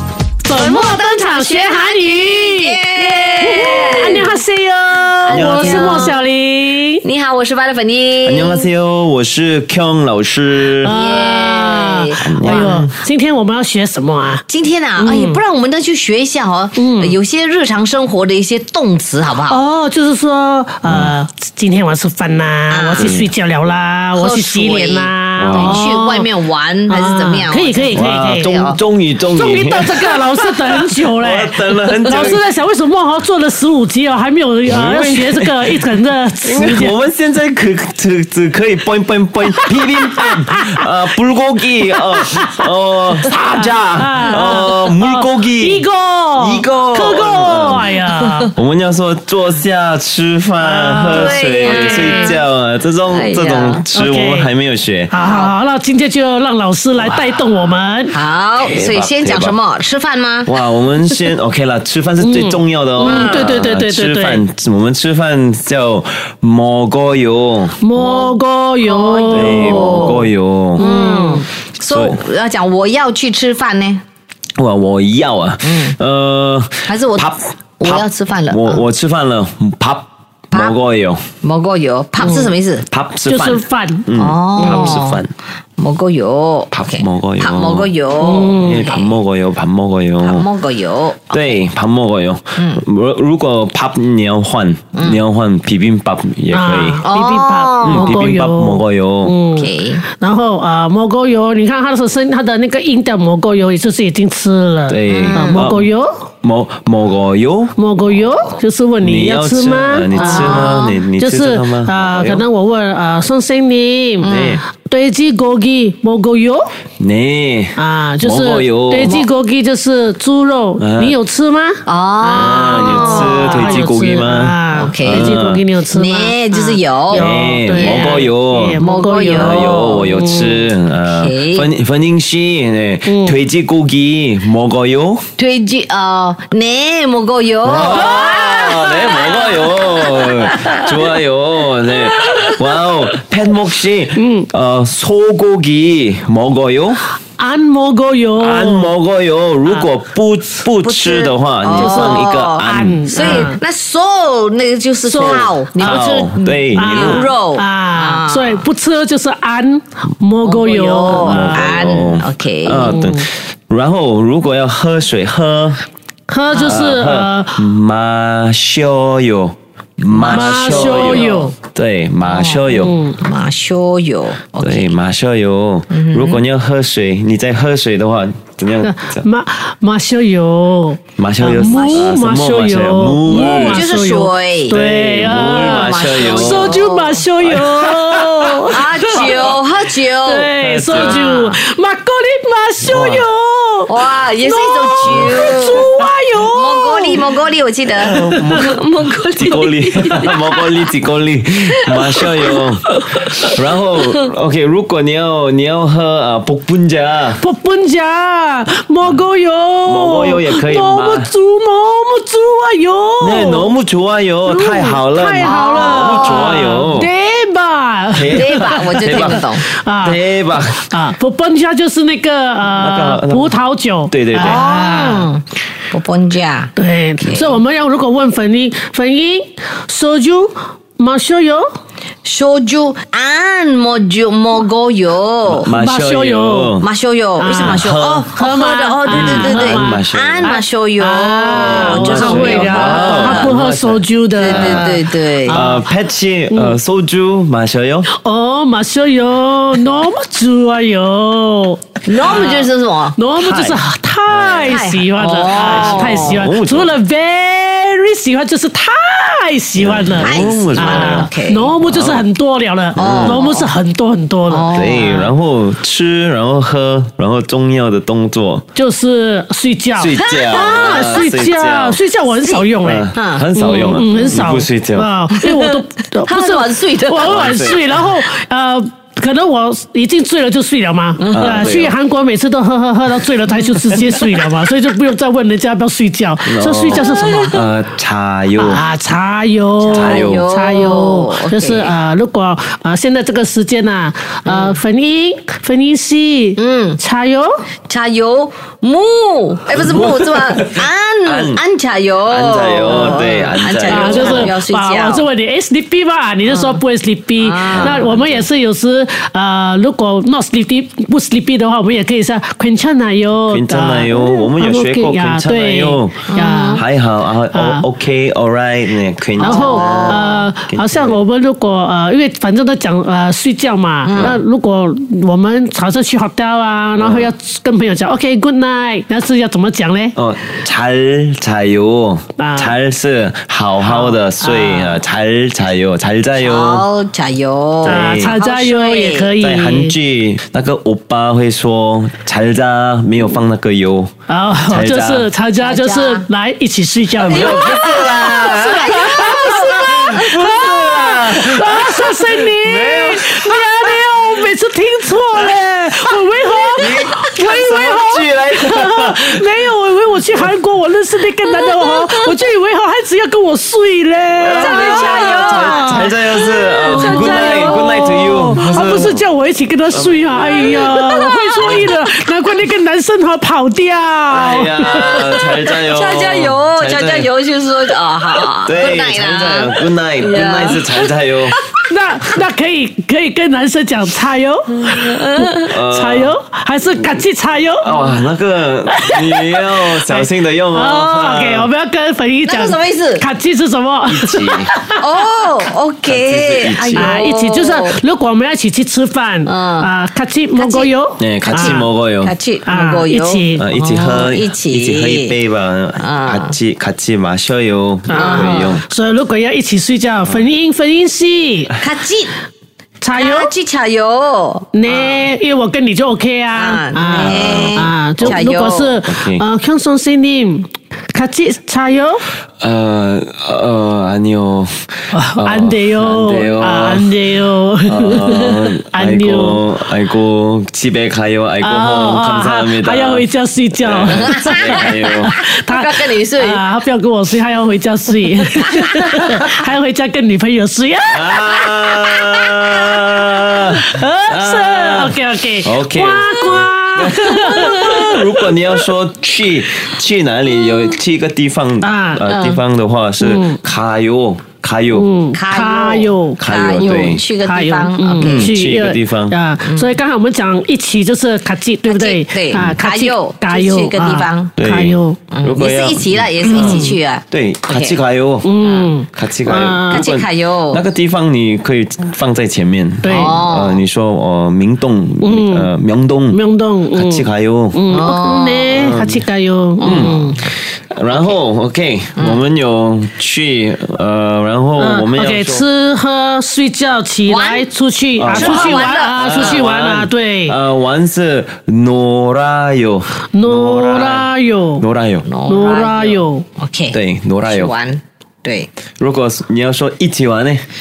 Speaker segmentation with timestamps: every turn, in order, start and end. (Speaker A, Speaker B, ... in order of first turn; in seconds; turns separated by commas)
Speaker A: 0.4-7.0, Speaker B: 0.5-4.4, Speaker B: 5.2-6.2, Speaker C: 5.3-6.2, Speaker B: 7.0-8.7, Speaker C: 8.2-10.9, Speaker A: 10.8-14.4, Speaker B: 10.8-12.8, Speaker C: 12.2-13.0, Speaker B: 14.5-19.6, Speaker A: 15.0-15.4, Speaker A: 16.8-17.2, Speaker A: 19.4-26.3, Speaker C: 20.8-21.1, Speaker B: 22.7-23.2, Speaker C: 22.9-23.3, Speaker B: 24.1-28.8, Speaker C: 25.4-25.8, Speaker A: 26.9-28.7, Speaker C: 27.9-32.4, Speaker A: 29.3-37.0, Speaker C: 34.6-35.8, Speaker C: 36.4-45.8, Speaker A: 39.5-40.3, Speaker A: 42.1-42.7, Speaker A: 43.3-48.5, Speaker C: 46.4-55.2, Speaker A: 50.6-52.4, Speaker B: 51.1-52.4, Speaker B: 53.1-53.8, Speaker A: 53.9-54.5, Speaker A: 55.1-58.2, Speaker B: 55.2-55.5, Speaker C: 57.0-57.2, Speaker B: 58.1-60.5, Speaker C: 58.6-59.6, Speaker C: 60.5-67.8, Speaker A: 62.2-64.4, Speaker B: 63.0-63.7, Speaker A: 67.8-70.2, Speaker B: 67.9-74.0, Speaker C: 69.3-70.8, Speaker A: 70.8-71.5, Speaker C: 71.9-72.2, Speaker C: 74.6-81.2, Speaker B: 75.6-76.0, Speaker B: 76.8-78.8, Speaker B: 81.4-82.8, Speaker A: 82.2-82.5, Speaker C: 82.9-85.3, Speaker A: 83.2-85.0, Speaker B: 84.1-85.2, Speaker B: 85.8-89.2, Speaker C: 86.7-87.9, Speaker A: 88.2-88.9, Speaker C: 88.5-90.5, Speaker B: 90.2-91.3, Speaker C: 91.3-97.0, Speaker B: 92.6-92.8, Speaker B: 94.9-95.2, Speaker A: 96.5-106.2, Speaker B: 97.0-98.3, Speaker C: 97.8-99.4, Speaker B: 99.5-100.0, Speaker C: 104.9-105.9, Speaker B: 105.1-105.6, Speaker C: 106.4-107.7, Speaker A: 107.8-116.7, Speaker C: 109.0-112.4, Speaker B: 110.1-111.0, Speaker B: 114.2-114.6, Speaker C: 114.3-114.6, Speaker C: 117.0-119.3, Speaker A: 117.8-130.7, Speaker C: 120.8-121.2, Speaker B: 121.8-123.8, Speaker C: 122.3-125.6, Speaker B: 124.7-125.3, Speaker B: 125.9-130.1, Speaker C: 127.1-135.3, Speaker B: 131.1-131.7, Speaker A: 133.1-133.4, Speaker B: 135.4-140.7, Speaker C: 137.6-147.0, Speaker A: 144.2-144.5, Speaker A: 147.4-148.9, Speaker C: 148.4-153.5, Speaker B: 150.8-158.7, Speaker A: 151.7-153.6, Speaker A: 155.0-156.1, Speaker C: 155.2-157.3, Speaker A: 156.7-161.9, Speaker B: 160.4-163.1, Speaker C: 161.1-165.8, Speaker A: 162.8-163.3, Speaker A: 166.3-167.6, Speaker C: 166.5-172.9, Speaker B: 170.1-171.5, Speaker A: 170.2-171.5, Speaker B: 172.2-175.0, Speaker A: 172.7-173.2, Speaker C: 174.6-179.2, Speaker B: 175.9-176.4, Speaker A: 178.8-189.6, Speaker C: 181.2-183.9, Speaker B: 181.6-182.1, Speaker B: 183.2-184.8, Speaker C: 184.7-186.8, Speaker B: 185.5-187.2, Speaker C: 187.4-188.5, Speaker B: 188.4-191.6, Speaker C: 189.1-189.5, Speaker A: 190.2-197.3, Speaker C: 190.6-191.2, Speaker C: 192.8-193.3, Speaker B: 193.9-195.8, Speaker C: 195.0-195.8, Speaker B: 196.5-200.5, Speaker C: 198.0-198.8, Speaker A: 198.1-198.6, Speaker C: 199.3-207.4, Speaker B: 201.8-202.6, Speaker A: 202.2-203.5, Speaker A: 207.4-213.7, Speaker C: 209.8-211.3, Speaker C: 213.2-217.1, Speaker A: 214.4-225.3, Speaker B: 215.4-216.5, Speaker C: 218.1-219.4, Speaker B: 218.3-219.6, Speaker C: 220.0-220.8, Speaker C: 222.6-224.7, Speaker B: 224.3-227.6, Speaker A: 226.8-231.7, Speaker B: 232.2-235.7, Speaker C: 235.5-236.9, Speaker A: 235.7-236.8, Speaker B: 236.8-243.5, Speaker A: 237.4-245.9, Speaker C: 237.5-238.2, Speaker C: 239.1-240.6, Speaker C: 241.5-244.9, Speaker B: 244.3-245.7, Speaker C: 245.5-248.1, Speaker A: 246.5-246.8, Speaker A: 248.1-265.1, Speaker B: 252.1-253.2, Speaker C: 253.3-254.8, Speaker B: 254.7-256.4, Speaker C: 255.6-256.9, Speaker C: 259.7-262.3, Speaker B: 260.1-261.8, Speaker C: 262.9-263.4, Speaker B: 262.9-263.7, Speaker B: 264.5-265.3, Speaker C: 264.7-268.6, Speaker A: 268.7-287.6, Speaker C: 269.9-272.0, Speaker B: 270.1-271.3, Speaker B: 272.3-274.5, Speaker C: 272.8-275.1, Speaker B: 275.3-277.4, Speaker C: 277.2-278.1, Speaker B: 281.2-281.7, Speaker C: 281.3-282.0, Speaker B: 283.5-284.4, Speaker C: 286.4-288.8, Speaker B: 286.9-287.6, Speaker A: 288.6-297.6, Speaker B: 289.9-291.9, Speaker C: 289.9-290.4, Speaker B: 294.4-294.8, Speaker B: 296.6-297.0, Speaker B: 297.9-305.3, Speaker C: 299.7-301.6, Speaker C: 302.3-304.5, Speaker A: 303.9-316.9, Speaker B: 306.5-306.8, Speaker B: 307.4-308.1, Speaker C: 307.7-308.5, Speaker C: 313.5-321.2, Speaker B: 316.3-316.8, Speaker A: 317.5-317.8, Speaker B: 319.4-320.4, Speaker A: 319.4-330.2, Speaker B: 324.0-324.4, Speaker C: 324.1-324.4, Speaker C: 326.9-327.3, Speaker C: 330.1-336.9, Speaker A: 332.4-332.7, Speaker A: 333.8-335.0, Speaker B: 336.4-339.3, Speaker C: 337.8-338.4, Speaker A: 337.8-339.9, Speaker C: 339.4-344.1, Speaker A: 344.3-375.5, Speaker C: 344.7-345.3, Speaker B: 345.6-346.3, Speaker C: 347.1-354.2, Speaker B: 347.2-350.6, Speaker B: 356.5-356.9, Speaker C: 356.7-359.7, Speaker B: 361.4-362.4, Speaker C: 364.3-369.2, Speaker B: 364.5-368.2, Speaker C: 369.9-371.1, Speaker B: 370.7-371.9, Speaker C: 371.6-371.9, Speaker C: 374.3-377.3, Speaker B: 375.8-381.6, Speaker C: 378.6-381.6, Speaker A: 381.9-387.9, Speaker B: 384.8-385.7, Speaker C: 385.7-386.3, Speaker C: 387.8-391.7, Speaker A: 388.9-395.0, Speaker B: 392.5-393.2, Speaker C: 394.1-394.7, Speaker B: 395.0-398.0, Speaker C: 396.1-397.1, Speaker A: 396.9-401.9, Speaker B: 399.4-399.9, Speaker B: 400.5-405.3, Speaker C: 401.2-402.3, Speaker A: 402.6-403.7, Speaker C: 403.6-408.8, Speaker B: 406.0-406.5, Speaker A: 408.1-411.7, Speaker B: 408.1-408.8, Speaker B: 411.8-412.4, Speaker A: 413.0-413.5, Speaker B: 413.1-415.3, Speaker A: 414.7-422.2, Speaker B: 416.5-419.0, Speaker C: 417.1-418.4, Speaker C: 419.0-419.4, Speaker C: 422.6-427.2, Speaker A: 425.1-429.6, Speaker C: 427.9-433.2, Speaker A: 431.6-441.6, Speaker C: 433.8-435.4, Speaker B: 434.1-436.6, Speaker B: 438.4-439.4, Speaker C: 441.1-455.1, Speaker A: 443.6-448.5, Speaker B: 447.5-447.9, Speaker A: 451.8-452.2, Speaker B: 452.2-452.6, Speaker A: 453.2-453.6, Speaker A: 454.9-465.2, Speaker B: 455.3-458.6, Speaker C: 456.4-457.2, Speaker C: 458.2-459.4, Speaker B: 459.6-460.0, Speaker B: 461.9-464.5, Speaker C: 464.6-468.6, Speaker B: 465.3-468.0, Speaker A: 466.4-466.9, Speaker A: 468.4-470.1, Speaker B: 468.6-468.9, Speaker C: 469.1-476.4, Speaker B: 469.9-470.8, Speaker A: 473.0-473.4, Speaker B: 473.1-473.8, Speaker A: 475.2-475.7, Speaker A: 476.3-480.4, Speaker C: 476.9-477.8, Speaker B: 477.9-478.8, Speaker C: 478.7-479.2, Speaker B: 479.8-480.2, Speaker C: 479.8-485.6, Speaker B: 482.2-482.4, Speaker A: 484.8-490.6, Speaker B: 487.2-487.7, Speaker C: 488.2-495.2, Speaker B: 488.3-489.6, Speaker A: 493.3-494.8, Speaker B: 495.2-498.7, Speaker A: 495.4-496.4, Speaker C: 496.9-497.7, Speaker C: 499.0-500.6